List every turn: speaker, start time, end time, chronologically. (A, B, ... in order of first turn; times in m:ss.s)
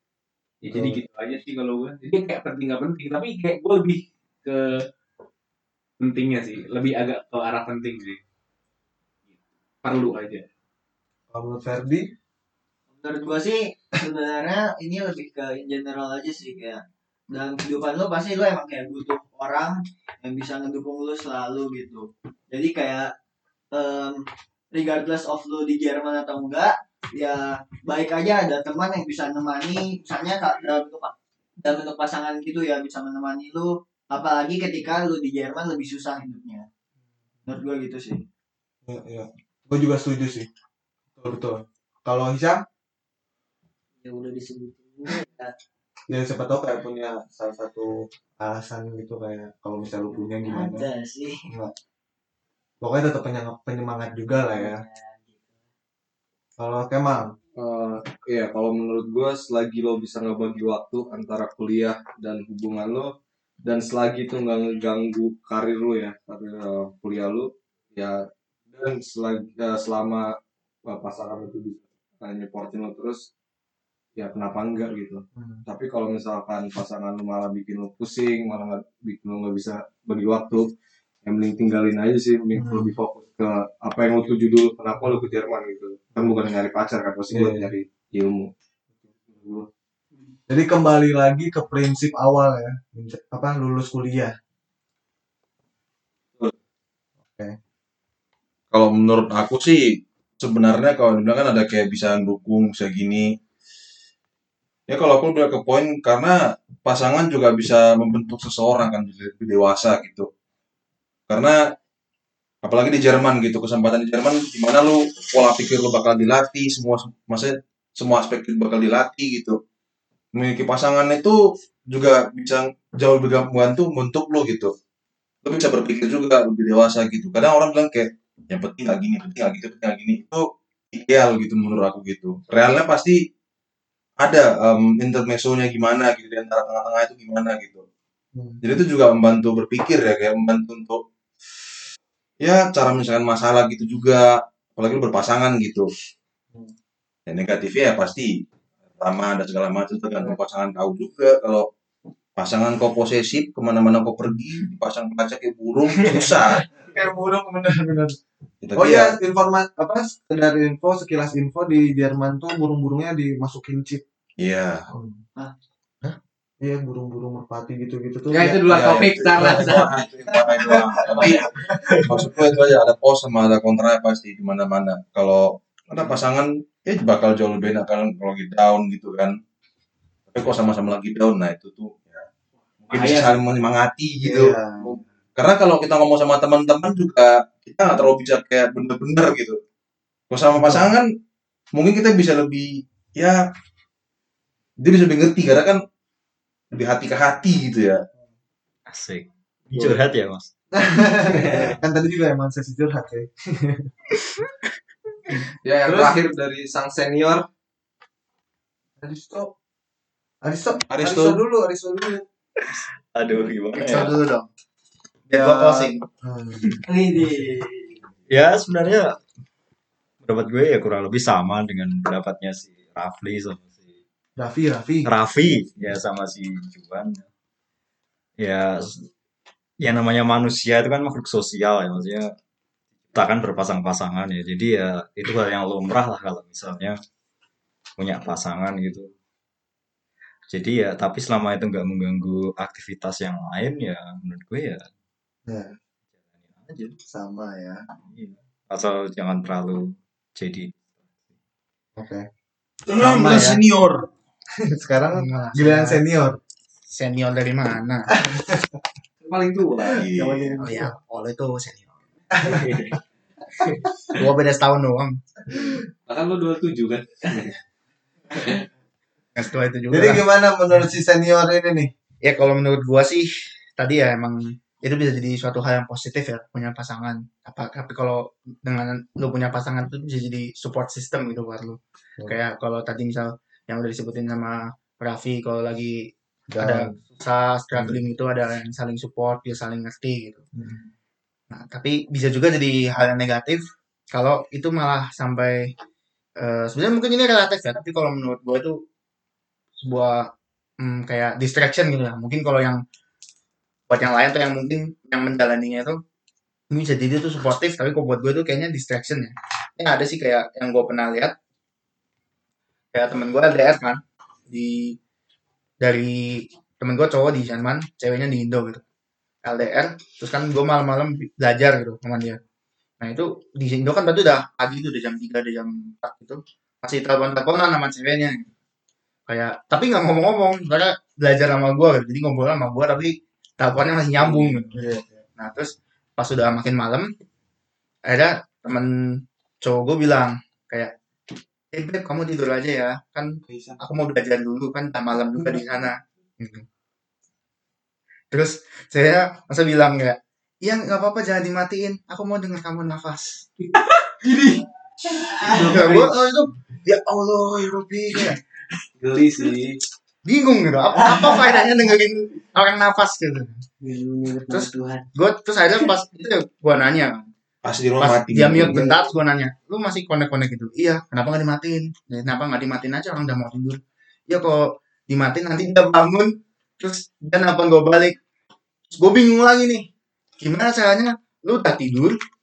0:00.6-0:04.9 A
0:00.7-0:01.0 B
0:06.0-0:08.2 A
0:09.8-0:10.4 A
0:11.3-0:12.1 B
0:13.0-0:23.1 C
0:23.7-0:36.7 C
0:37.5-0:38.2 C
0:38.8-0:40.5 B
0:41.2-0:42.6 B
0:44.0-0:45.5 C
0:46.1-0:50.9 B
0:50.4-0:51.4 C
0:51.5-0:51.7 B
0:52.8-0:54.8 B
0:54.5-0:55.5 C
0:56.6-0:57.4 B
0:57.6-1:03.1 D
1:03.6-1:08.2 D
1:08.7-1:10.3 D
1:10.9-1:13.3 D
1:14.2-1:20.7 D
1:21.2-1:28.5 D
1:22.6-1:23.0 B
1:27.3-1:27.7 B
1:29.3-1:29.7 D
1:30.5-1:34.3 B
1:37.2-1:37.6 B
1:38.7-1:43.3 E
1:44.9-1:50.3 E
1:51.3-1:51.6 E
1:52.6-1:59.6 E
2:00.4-2:01.4 E
2:01.9-2:04.7 E
2:05.4-2:13.2 E
2:14.2-2:17.8 E
2:18.4-2:18.6 B
2:18.6-2:21.0 E
2:22.4-2:25.9 E
2:27.3-2:28.3 E
2:29.0-2:31.7 E
2:32.4-2:36.7 E
2:36.8-2:38.2 B
2:38.6-2:39.2 E
2:38.8-2:44.0 B
2:44.4-2:44.9 E
2:44.9-2:45.2 B
2:46.6-2:48.8 B
2:48.4-2:49.9 D
2:48.6-2:59.4 E
2:49.4-2:49.9 B
2:49.4-2:49.7 A
2:50.6-2:52.3 B
3:00.3-3:02.2 E
3:02.8-3:09.6 E
3:02.9-3:03.4 A
3:04.2-3:04.9 B
3:10.3-3:11.1 E
3:10.6-3:10.9 B
3:11.7-3:13.4 E
3:14.8-3:15.8 E
3:16.7-3:18.0 E
3:18.9-3:20.5 F
3:20.7-3:23.9 B
3:25.7-3:27.5 D
3:25.9-3:26.2 B
3:29.0-3:29.5 B
3:30.4-3:32.2 B
3:30.9-3:31.4 E
3:32.7-3:34.2 F
3:33.8-3:34.5 G
3:35.3-3:37.5 B
3:35.3-3:36.0 G
3:36.8-3:38.0 C
3:38.3-3:39.2 F
3:40.2-3:43.9 F
3:44.4-3:45.7 B
3:45.0-3:47.3 F
3:48.4-3:49.1 F
3:49.8-3:52.3 F
3:53.1-3:57.0 F
3:58.0-3:59.1 F
4:00.5-4:04.9 F
4:05.5-4:05.8 B
4:06.4-4:07.0 F
4:07.1-4:07.8 B
4:08.1-4:10.9 F
4:12.0-4:12.3 B
4:12.9-4:14.1 E
4:12.9-4:13.6 G
4:14.7-4:16.4 B
4:15.2-4:16.0 G
4:16.9-4:18.2 G
4:18.1-4:18.7 B
4:19.2-4:20.1 D
4:20.0-4:20.6 E
4:20.3-4:22.0 G
4:20.6-4:20.9 B
4:22.3-4:22.8 B
4:22.5-4:22.9 D
4:24.1-4:25.2 G
4:26.1-4:27.6 D
4:28.4-4:28.6 D
4:29.4-4:30.2 G
4:29.9-4:31.9 B
4:32.2-4:50.4 G
4:46.5-4:47.0 B
4:47.7-4:48.0 B
4:50.6-4:50.9 B
4:51.5-4:55.7 G
4:56.4-4:58.8 G
4:59.8-5:02.8 G
5:03.9-5:06.0 G
5:06.7-5:11.4 G
5:12.9-5:15.0 G
5:15.8-5:18.8 G
5:19.4-5:22.4 G
5:23.0-5:28.5 G
5:29.3-5:34.8 G
5:34.7-5:35.0 B
5:35.4-5:37.1 G
5:38.1-5:40.9 G
5:41.7-5:46.6 G
5:43.5-5:43.8 B
5:48.3-5:53.5 G
5:55.2-5:55.8 C
5:55.5-5:56.5 G
5:55.8-5:56.1 B
5:56.9-5:58.3 E
5:59.0-5:59.8 D
6:00.3-6:03.6 G
6:01.0-6:01.5 C
6:03.8-6:05.1 C
6:04.5-6:07.3 G
6:07.6-6:09.0 E
6:08.0-6:18.2 G
6:18.9-6:19.9 G
6:20.4-6:22.2 G